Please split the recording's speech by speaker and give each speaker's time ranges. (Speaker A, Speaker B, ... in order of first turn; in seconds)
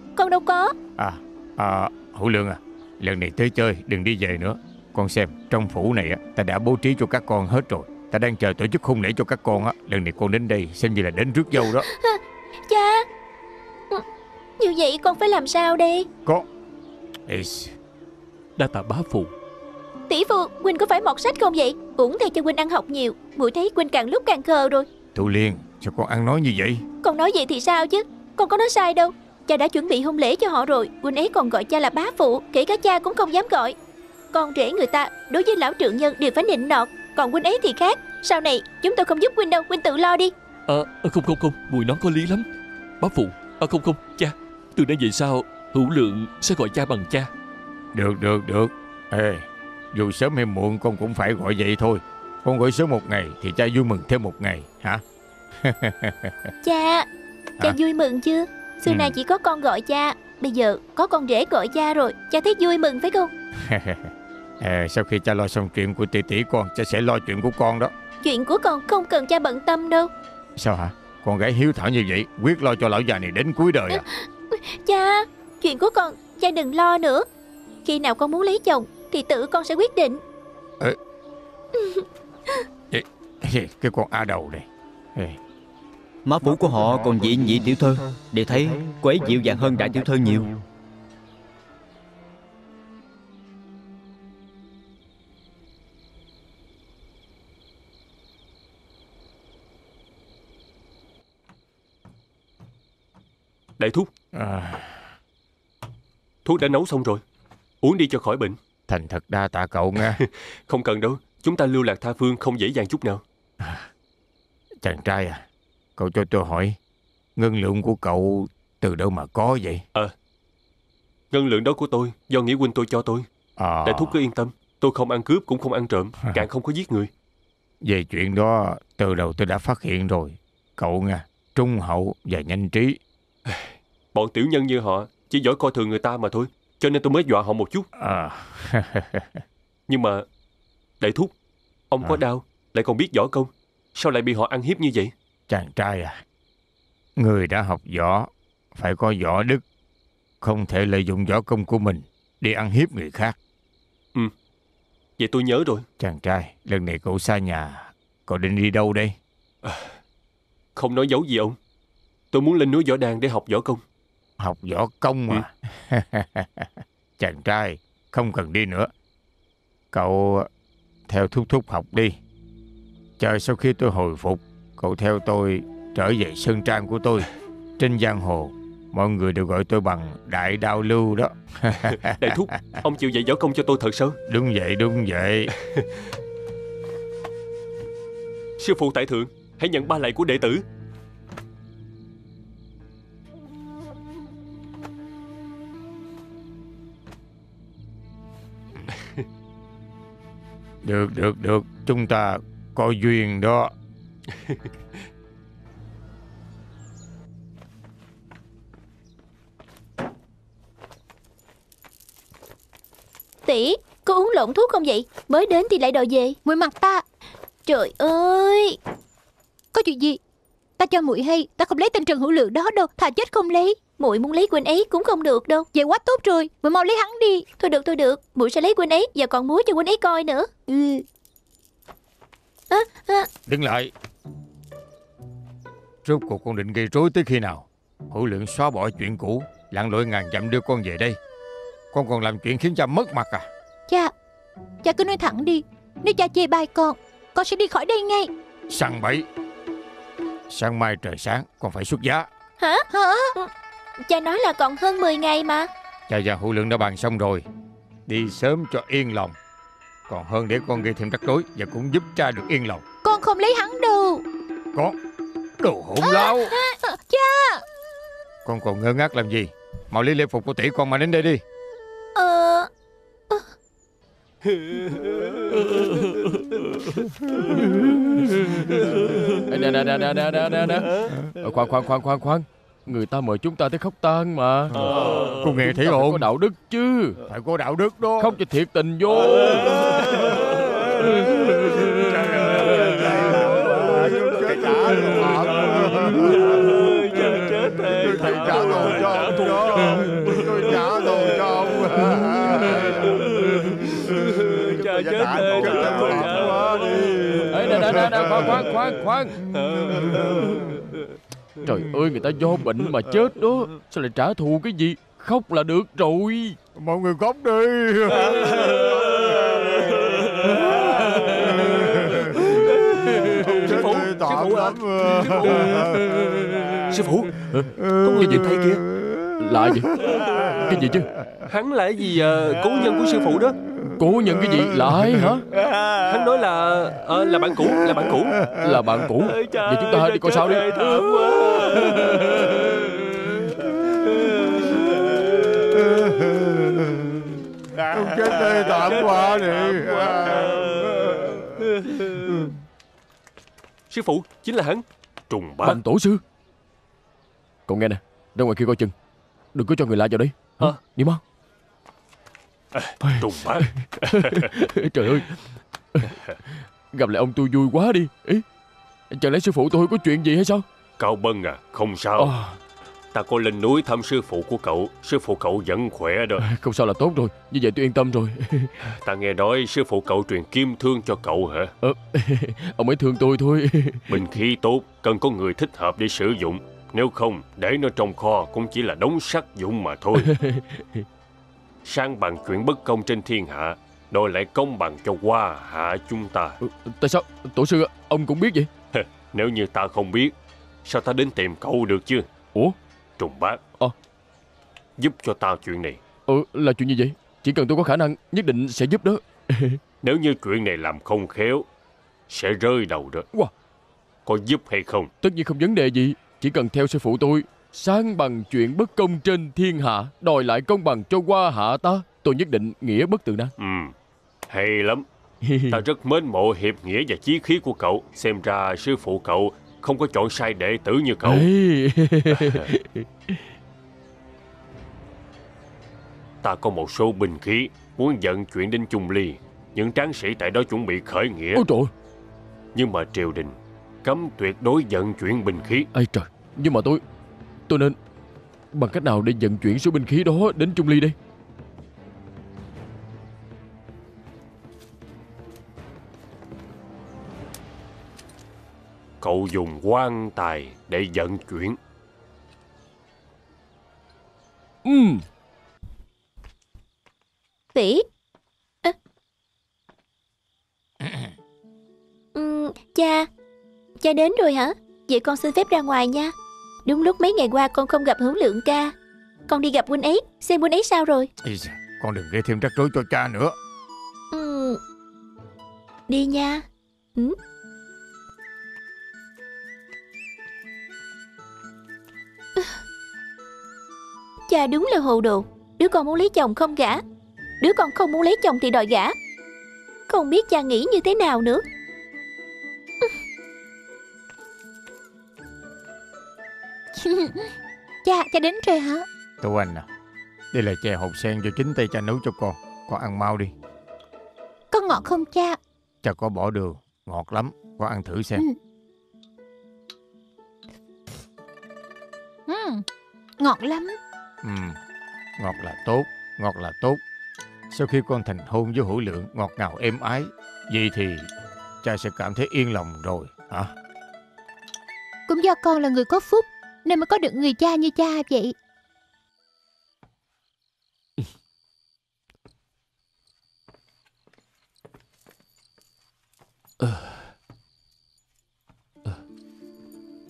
Speaker A: 0.1-0.7, 11.9-13.0, 14.6-16.1, 20.1-24.9, 27.0-33.8, 34.3-40.3, 56.6-57.1, 57.6-63.3, 68.2-70.1, 73.9-77.2, 77.8-80.2, 81.8-82.6, 213.5-216.4, 217.7-218.8, 224.0-225.7, 227.6-230.5, 232.7-233.3, 252.6-255.7, 272.1-272.7, 467.7-468.0, 472.3-473.3, 474.0-476.3, 476.9-478.9, 479.5-481.3, 484.3-484.8, 486.1-486.6, 494.5-497.0, 497.6-499.1, 500.1-501.6
Speaker B: 1.0-11.8, 17.2-17.7, 25.1-26.8, 47.9-55.0, 55.5-56.5, 58.9-59.1, 63.6-67.9, 70.5-74.0, 82.9-85.4, 104.3-105.1, 108.9-110.2, 113.6-113.9, 114.8-115.4, 116.0-116.8, 117.3-119.8, 123.6-124.2, 127.8-133.0, 137.9-139.4, 145.5-146.2, 147.2-149.6, 150.4-153.4, 156.0-159.2, 164.4-168.9, 169.9-170.5, 171.1-172.2, 173.2-182.4, 184.3-185.5, 200.8-203.7, 233.5-233.9, 236.0-241.2, 241.9-243.5, 248.7-249.3, 250.5-252.3, 256.1-257.4, 258.1-259.3, 260.1-262.8, 265.6-266.6, 268.4-271.4, 284.7-286.3, 287.3-288.4, 291.5-296.8, 297.9-308.6, 309.4-310.9, 316.8-322.8, 323.3-326.9, 328.9-330.7, 345.7-352.5, 471.0-471.3, 481.4-483.5, 509.4-509.9, 510.5-513.5, 516.0-518.4, 524.4-524.8, 525.4-527.0, 527.7-531.3, 531.8-533.7
Speaker C: 18.6-19.3, 40.7-42.5, 43.0-47.3, 275.6-276.5, 546.8-547.2
Speaker D: 86.2-90.5
Speaker E: 103.8-104.1, 106.4-107.2, 107.8-108.6, 110.2-113.2, 121.3-123.2, 123.8-127.1, 133.5-137.9, 139.9-140.2, 141.0-141.3, 141.9-145.1, 155.2-155.8, 159.6-159.9, 160.8-161.6, 162.3-163.8, 181.9-184.2, 188.6-190.6, 274.6-275.8, 278.6-279.1, 284.8-285.4, 289.2-308.4, 309.5-311.0, 318.2-326.1, 326.9-327.4, 327.9-328.8, 331.5-333.6, 336.0-338.5, 339.2-345.7, 348.0-352.4, 353.9-355.8, 362.7-364.6, 366.1-366.4, 371.0-372.3, 373.1-376.4, 378.9-381.7, 384.1-390.3, 391.8-396.6, 398.9-400.3, 400.8-402.3, 403.2-403.6, 405.0-406.0, 410.0-411.6, 412.3-413.2, 414.2-415.1, 423.6-423.9, 424.5-425.0, 425.7-431.5, 432.3-432.7, 436.4-441.6, 442.7-445.9, 459.2-461.8
Speaker F: 216.4-217.0, 219.7-220.2, 220.8-223.8, 225.7-227.4, 230.7-231.0, 244.8-248.3, 252.9-253.3, 263.0-264.2, 266.0-267.6, 506.9-509.1, 514.7-515.6, 522.5-522.8, 523.4-524.0, 535.3-538.5
Speaker G: 279.5-287.2, 288.2-289.8, 307.5-309.4, 311.6-316.6, 327.5-328.4, 329.4-329.9, 330.6-331.1, 333.9-335.4, 338.6-340.6, 355.6-356.2, 357.7-358.9, 359.5-361.2, 363.0-365.4, 366.9-368.4, 369.1-370.6, 372.2-372.6, 376.4-378.8, 381.8-384.2, 390.1-391.1, 396.6-398.7, 406.3-409.8, 415.2-423.5, 425.4-425.8, 431.2-433.5, 441.5-441.9, 445.9-447.0, 447.7-448.0, 448.7-451.1, 464.8-465.2